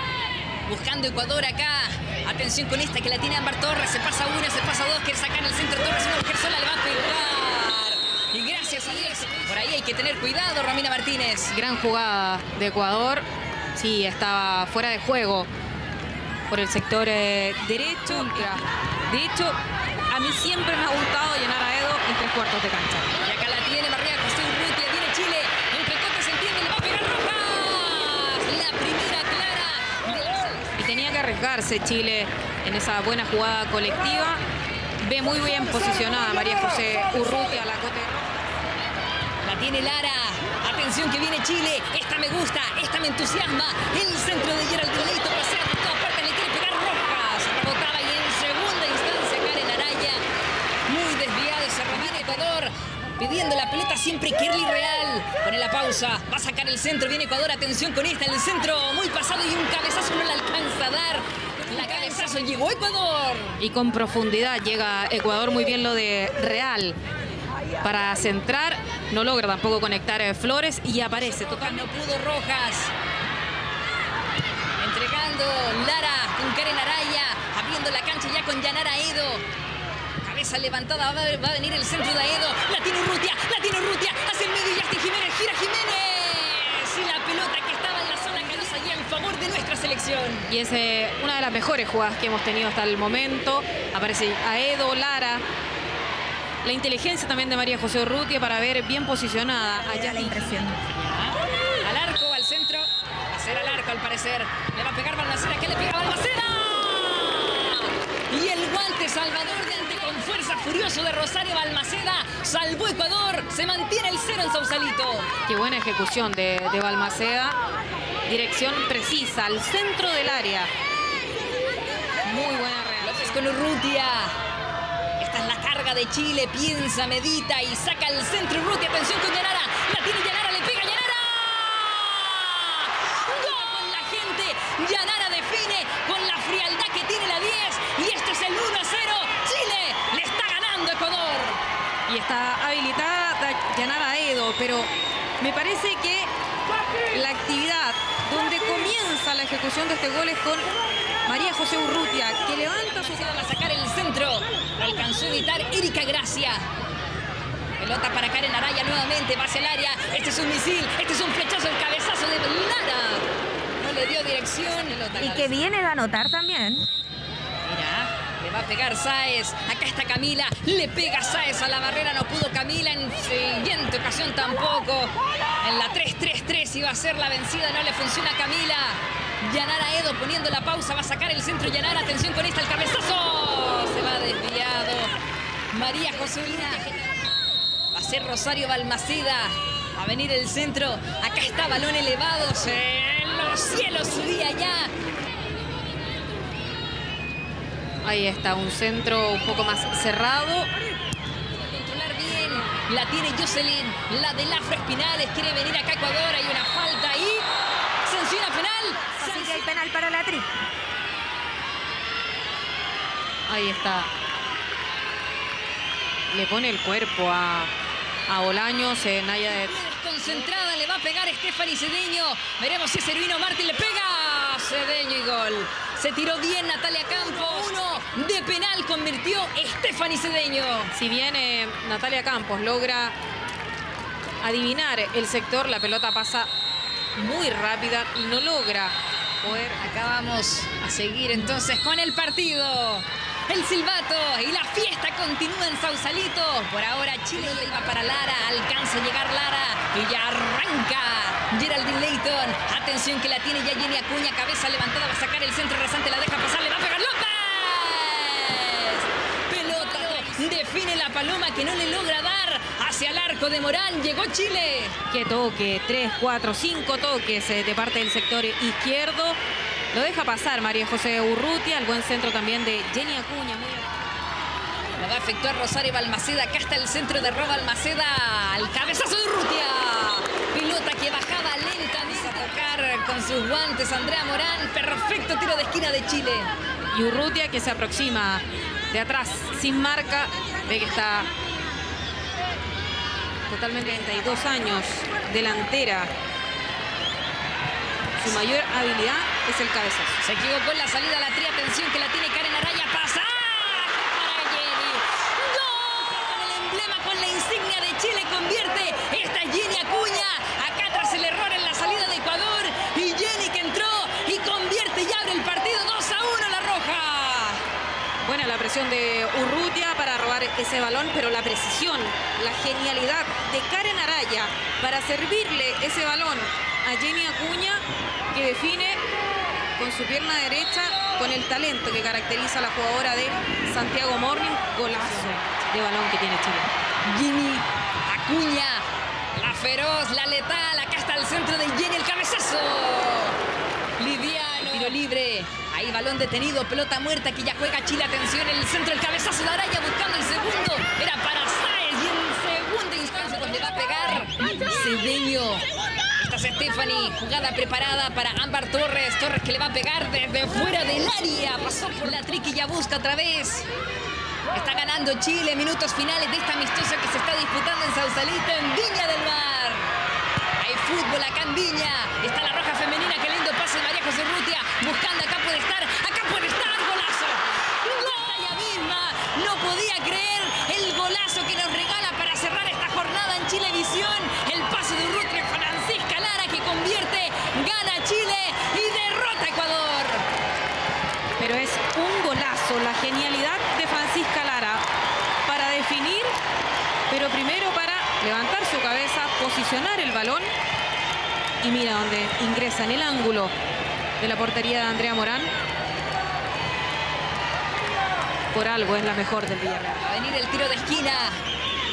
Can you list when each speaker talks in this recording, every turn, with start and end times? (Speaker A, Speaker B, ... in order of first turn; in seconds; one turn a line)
Speaker A: 0.7-11.6
Speaker B: 11.5-13.2
Speaker B: 13.8-15.5
Speaker B: 16.5-19.6
Speaker B: 20.1-23.1
Speaker A: 23.2-30.7
Speaker B: 30.8-34.4
Speaker B: 35.0-38.3
Speaker A: 39.4-50.2
Speaker A: 50.9-63.6
Speaker B: 63.6-67.0
Speaker B: 67.8-71.9
Speaker A: 71.3-72.9
Speaker A: 74.8-79.4
Speaker A: 80.2-90.5
Speaker B: 90.5-95.4
Speaker B: 96.6-100.6
Speaker C: 99.9-100.8
Speaker A: 100.8-115.3
Speaker B: 115.5-117.6
Speaker B: 118.2-120.7
Speaker B: 122.2-123.5
Speaker A: 123.0-124.3
Speaker A: 125.2-141.6
Speaker B: 142.1-146.3
Speaker B: 147.1-150.7
Speaker B: 151.2-153.4
Speaker A: 152.9-156.7
Speaker A: 157.8-163.3
Speaker A: 163.8-165.6
Speaker C: 165.1-166.9
Speaker A: 167.6-185.1
Speaker A: 185.7-186.9
Speaker A: 187.9-194.9
Speaker B: 198.0-200.7
Speaker A: 201.6-207.5
Speaker A: 208.0-209.7
Speaker C: 209.2-210.5
Speaker B: 213.5-214.1
Speaker B: 216.3-217.7
Speaker B: 218.3-220.6
Speaker A: 219.5-230.9
Speaker B: 230.9-233.1
Speaker B: 234.4-236.5
Speaker B: 237.2-239.8
Speaker A: 239.8-264.9
Speaker B: 247.3-248.0
Speaker B: 259.6-260.5
Speaker B: 265.1-269.4
Speaker B: 269.9-273.9
Speaker A: 275.0-286.5
Speaker B: 286.9-291.3
Speaker B: 293.5-296.1
Speaker B: 298.2-300.2
Speaker A: 300.2-317.6
Speaker B: 318.2-329.0
Speaker B: 329.8-336.7
Speaker A: 337.0-343.4
Speaker A: 344.0-363.7
Speaker B: 344.6-344.9
Speaker A: 364.5-369.9
Speaker A: 370.6-390.2
Speaker B: 391.4-394.8
Speaker B: 395.4-396.3
Speaker B: 397.1-400.5
Speaker B: 401.6-403.5
Speaker B: 404.2-405.5
Speaker B: 408.5-410.0
Speaker A: 410.0-411.4